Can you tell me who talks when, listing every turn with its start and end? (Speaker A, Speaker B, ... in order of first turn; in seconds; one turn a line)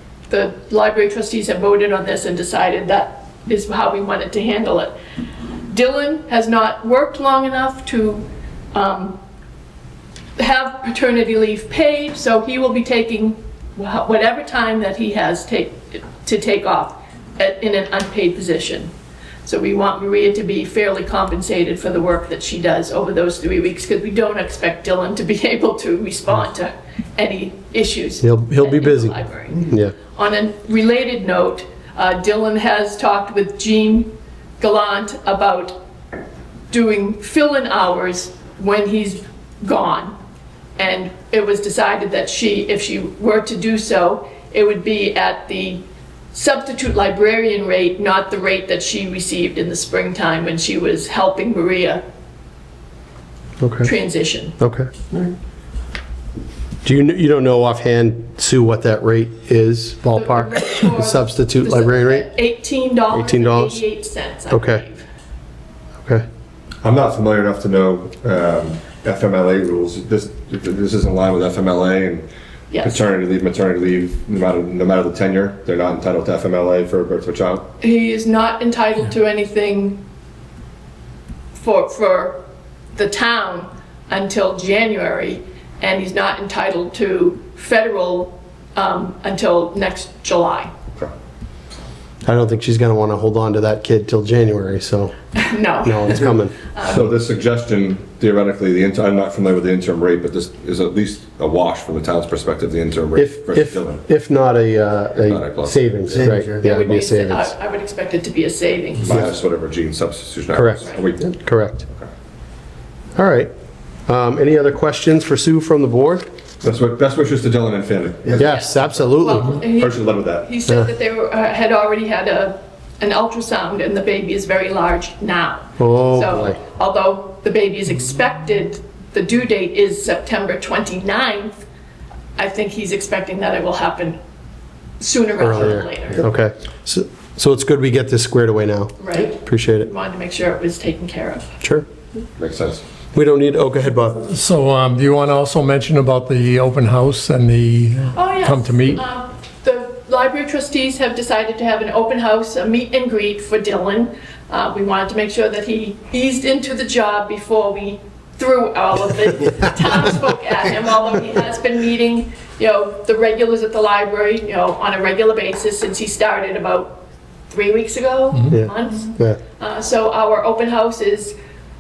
Speaker A: 0.3-4.9
Speaker A: 5.7-9.2
Speaker A: 10.4-18.9
Speaker A: 19.4-35.8
Speaker B: 28.2-29.9
Speaker A: 36.7-40.2
Speaker A: 40.8-52.0
Speaker B: 53.6-53.9
Speaker A: 53.8-54.6
Speaker B: 54.6-55.3
Speaker B: 56.8-62.3
Speaker A: 60.1-65.0
Speaker B: 63.1-63.8
Speaker B: 64.5-64.8
Speaker C: 66.8-72.3
Speaker A: 72.7-73.0
Speaker C: 72.8-77.7
Speaker A: 77.8-80.0
Speaker A: 81.6-82.4
Speaker A: 83.0-90.7
Speaker B: 92.2-95.1
Speaker A: 95.3-97.0
Speaker B: 95.8-96.6
Speaker C: 96.8-104.0
Speaker B: 103.2-107.5
Speaker C: 105.2-105.8
Speaker D: 106.1-106.6
Speaker A: 106.6-109.2
Speaker C: 109.0-111.3
Speaker B: 110.5-111.9
Speaker B: 113.2-113.5
Speaker B: 114.1-116.2
Speaker C: 116.6-118.9
Speaker B: 118.3-119.6
Speaker A: 118.4-131.6
Speaker C: 119.7-120.5
Speaker B: 125.8-126.6
Speaker A: 132.4-134.2
Speaker A: 135.0-136.2
Speaker B: 135.4-139.9
Speaker A: 139.0-141.5
Speaker C: 142.4-142.8
Speaker B: 143.1-144.3
Speaker D: 144.2-149.0
Speaker A: 148.1-171.3
Speaker B: 168.5-169.4